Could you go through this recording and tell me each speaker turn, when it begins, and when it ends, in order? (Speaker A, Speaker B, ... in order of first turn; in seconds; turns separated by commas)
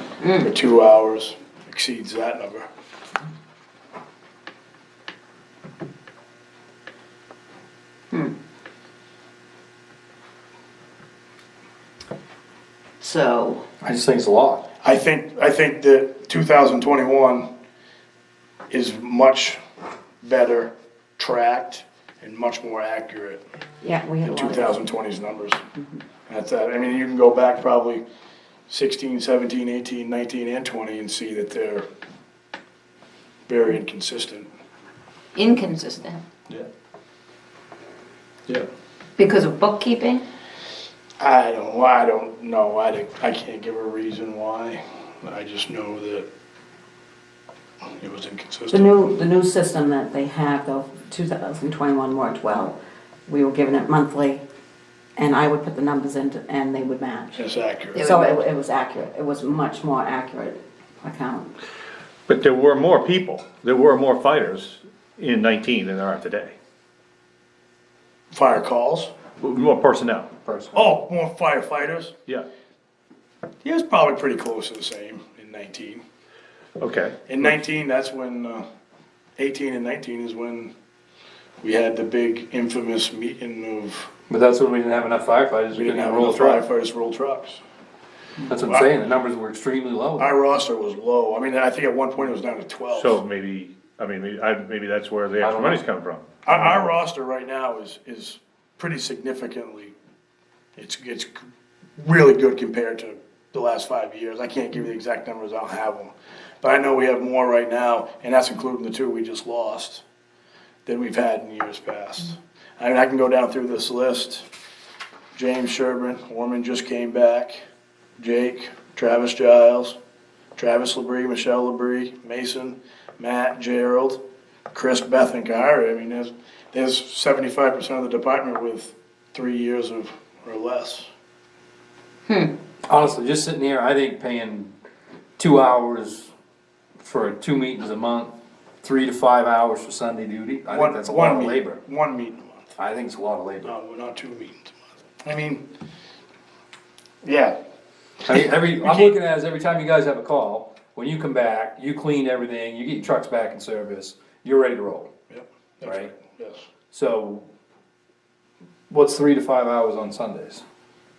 Speaker A: 0.2-0.5, Speaker B: 0.4-2.6, Speaker A: 13.0-13.7, Speaker C: 13.8-14.6, Speaker B: 14.8-17.5, Speaker B: 18.7-19.6, Speaker B: 20.2-23.4, Speaker D: 23.8-24.8, Speaker B: 24.2-25.6, Speaker B: 26.3-28.0, Speaker B: 28.7-31.9, Speaker B: 33.5-34.5, Speaker A: 35.3-36.2, Speaker A: 39.2-40.2, Speaker B: 41.2-46.3, Speaker B: 48.0-48.9, Speaker D: 48.7-54.4, Speaker D: 55.2-57.4, Speaker B: 57.4-58.0, Speaker A: 57.9-58.4, Speaker D: 58.0-61.5, Speaker E: 62.3-66.5, Speaker B: 68.3-69.1, Speaker E: 69.4-70.3, Speaker C: 70.4-70.8, Speaker B: 70.7-72.1, Speaker B: 73.6-76.0, Speaker E: 76.8-77.2, Speaker B: 77.3-78.6, Speaker B: 79.4-80.7, Speaker B: 81.6-84.1, Speaker C: 84.3-86.6, Speaker B: 85.7-87.6, Speaker C: 88.4-90.3, Speaker B: 88.7-88.9, Speaker B: 90.2-93.2, Speaker E: 92.9-96.3, Speaker C: 95.4-95.8, Speaker B: 96.4-99.9, Speaker B: 100.8-110.0, Speaker B: 110.8-114.5, Speaker B: 115.3-117.6, Speaker B: 118.2-120.0, Speaker B: 120.5-124.2, Speaker B: 124.7-131.1, Speaker A: 132.3-132.5, Speaker C: 132.9-134.7, Speaker C: 135.4-136.3, Speaker C: 137.0-141.8, Speaker B: 140.7-142.8, Speaker C: 142.8-143.7, Speaker B: 143.6-145.7, Speaker B: 147.2-147.6, Speaker C: 148.2-155.1, Speaker B: 148.8-149.1, Speaker B: 155.3-156.6, Speaker C: 155.8-156.1, Speaker C: 156.9-157.5, Speaker C: 158.9-160.6